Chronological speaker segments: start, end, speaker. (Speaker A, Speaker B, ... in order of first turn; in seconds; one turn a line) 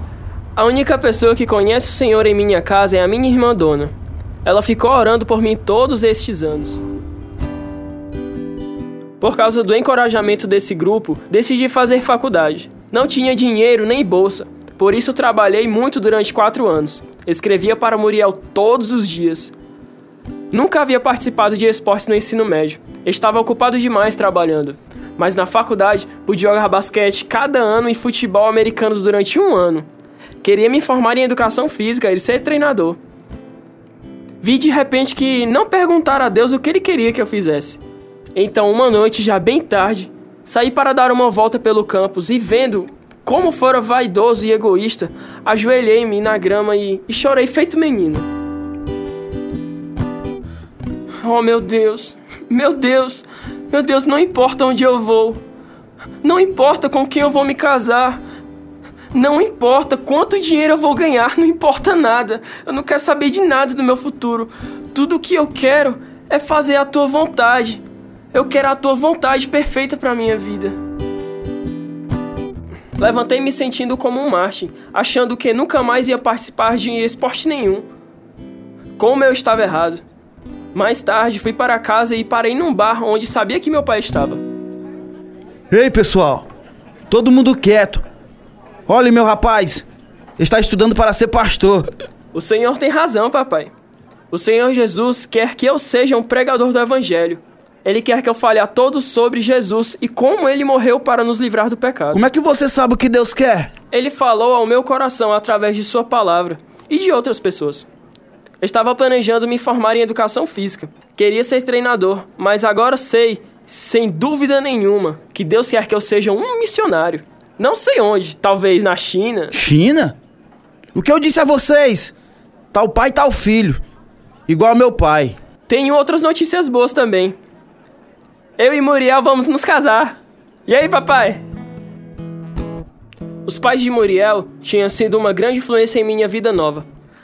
Speaker A: 0.6-3.9
Speaker A: 4.4-6.8
Speaker A: 9.2-19.5
Speaker A: 20.5-29.9
Speaker A: 30.4-33.0
Speaker A: 34.4-37.8
Speaker A: 38.3-48.2
Speaker A: 51.2-55.4
Speaker A: 56.2-58.2
Speaker A: 59.1-67.8
Speaker A: 68.3-70.8
Speaker A: 73.0-77.8
Speaker A: 79.0-80.0
Speaker A: 80.7-84.4
Speaker B: 85.7-86.5
Speaker B: 87.1-88.0
Speaker B: 88.9-89.8
Speaker B: 90.4-91.9
Speaker A: 92.3-93.7
Speaker A: 94.3-102.2
Speaker B: 102.1-103.7
Speaker A: 103.9-107.9
Speaker A: 108.6-119.5
Speaker B: 119.5-120.2
Speaker B: 120.9-122.1
Speaker B: 122.7-123.8
Speaker B: 124.5-125.4
Speaker A: 125.7-127.4
Speaker A: 128.6-131.4
Speaker A: 133.4-136.9